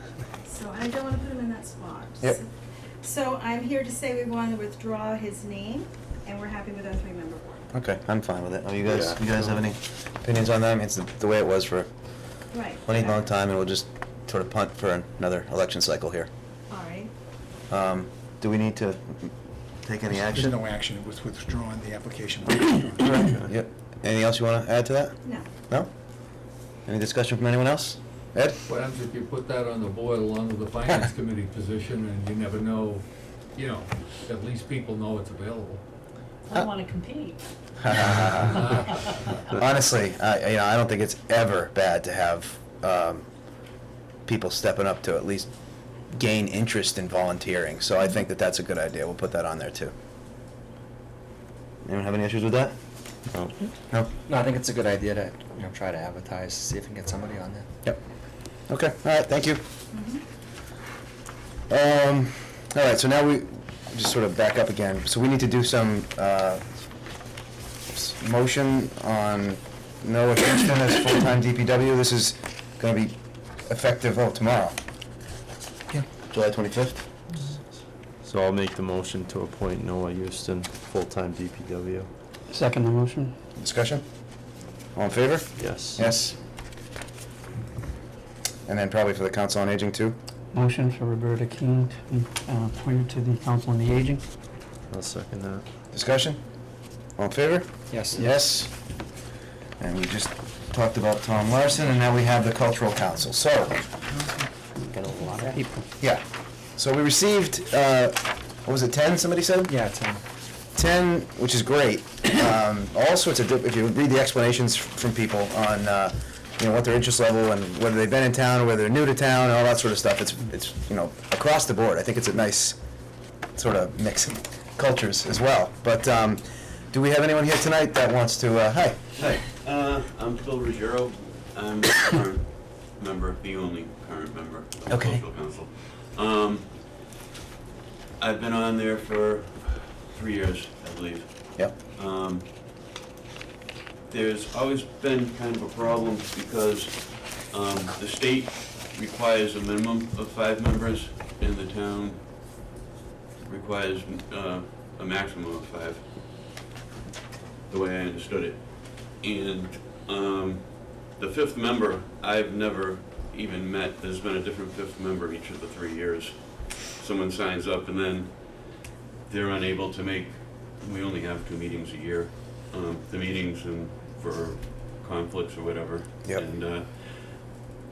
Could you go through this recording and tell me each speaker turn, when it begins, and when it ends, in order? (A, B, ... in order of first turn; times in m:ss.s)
0:00.4-0:02.5 A
0:03.0-0:07.6 A
0:07.7-0:11.9 B
0:08.8-0:09.6 C
0:12.5-0:13.2 A
0:12.8-0:16.3 B
0:16.7-0:17.1 A
0:17.7-0:19.3 B
0:19.8-0:20.6 B
0:20.1-0:23.2 D
0:23.0-0:25.1 B
0:23.2-0:23.5 C
0:26.9-0:28.6 B
0:28.7-0:35.8 E
0:36.4-0:39.3 F
0:37.8-0:38.6 B
0:39.5-0:43.2 B
0:44.3-0:45.5 B
0:46.1-0:49.9 B
0:51.8-0:52.8 B
0:53.3-0:53.6 C
0:54.3-0:57.7 G
0:58.7-0:59.6 B
0:59.9-1:00.2 A
1:01.7-1:06.6 B
1:07.9-1:13.1 B
1:13.6-1:14.8 B
1:16.2-1:17.0 B
1:18.2-1:22.1 C
1:22.5-1:23.3 H
1:23.6-1:24.0 B
1:25.0-1:26.4 B
1:25.6-1:26.1 C
1:28.7-1:30.2 B
1:30.5-1:34.2 H
1:34.9-1:35.6 C
1:35.9-1:36.4 B
1:37.2-1:38.7 B
1:37.9-1:38.3 G
1:39.8-1:43.9 B
1:44.9-1:45.6 G
1:45.5-1:45.9 H
1:46.8-1:49.7 B
1:49.7-1:50.2 G
1:50.8-2:02.8 B
2:03.6-2:09.2 B
2:09.2-2:16.9 I
2:14.9-2:15.2 B
2:18.2-2:22.5 I
2:24.1-2:32.2 I
2:33.4-2:36.0 I
2:37.7-2:57.5 I